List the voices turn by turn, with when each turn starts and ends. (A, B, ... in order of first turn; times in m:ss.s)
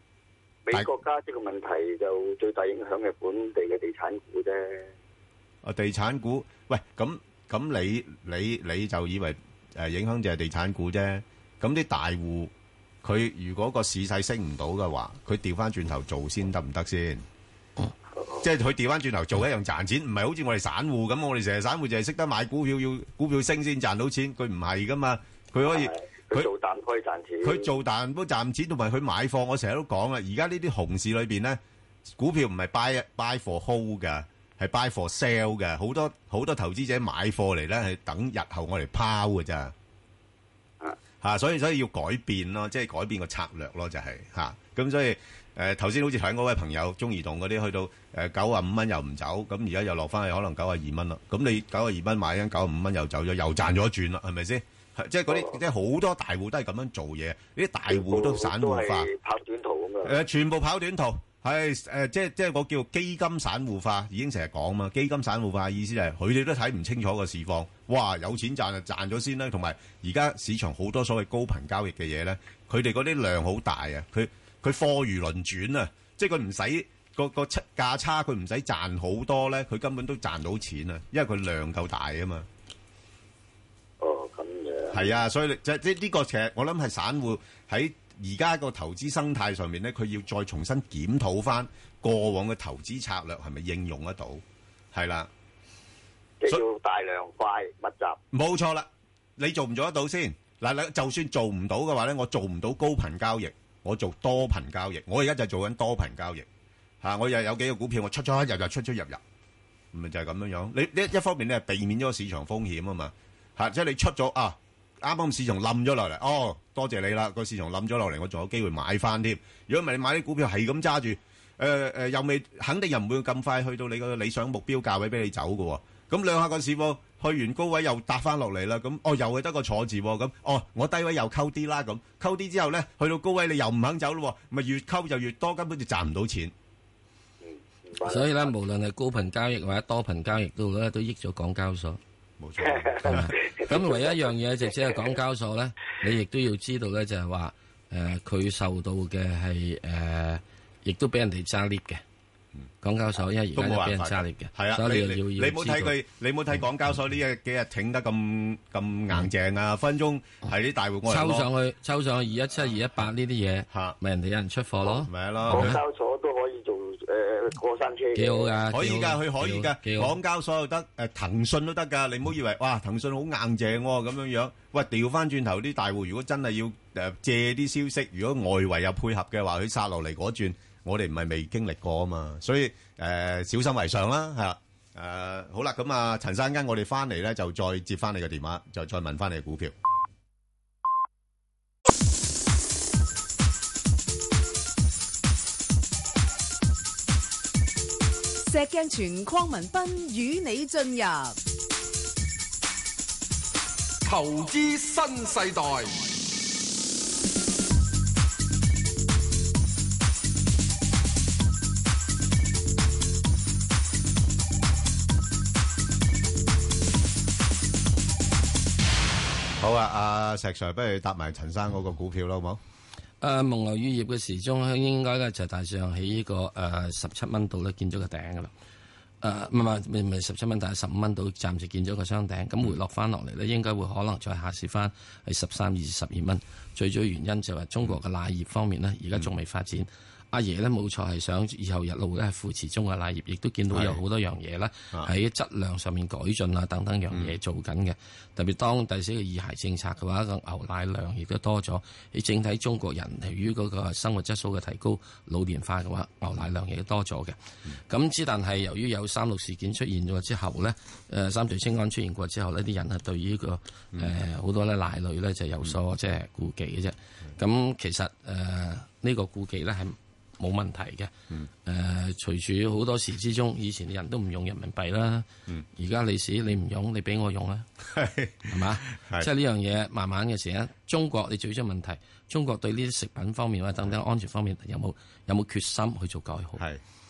0:00.7-0:04.9 A
0:05.6-0:12.5 B
0:13.0-0:17.3 B
0:18.2-0:18.5 A
0:18.4-0:26.5 B
0:25.6-0:27.7 A
0:27.4-0:31.6 B
0:32.1-0:39.7 B
0:41.2-0:59.1 B
0:55.3-0:55.6 A
0:57.9-1:00.2 A
1:00.0-1:22.5 B
1:24.0-1:25.2 A
1:24.9-1:35.3 B
1:36.4-1:38.2 A
1:38.3-1:46.5 B
1:47.0-1:49.2 B
1:49.9-2:16.5 B
2:17.4-2:18.3 A
2:18.0-2:22.0 C
2:22.4-2:23.4 B
2:22.6-2:24.1 A
2:23.0-2:32.0 C
2:32.8-2:36.0 C
2:33.5-2:41.5 B
2:41.1-2:45.8 C
2:43.7-2:44.0 B
2:45.0-2:45.8 B
2:45.5-2:48.6 A
2:48.2-2:50.1 C
2:48.7-3:09.8 B
3:18.5-3:21.4 D
3:24.0-3:26.1 E
3:39.6-3:42.6 B
3:43.2-3:48.5 C
3:49.2-4:31.1 C
4:03.7-4:04.0 B
4:31.6-4:37.7 C
4:37.9-4:39.3 B
4:38.5-4:46.6 C
4:46.6-4:46.8 B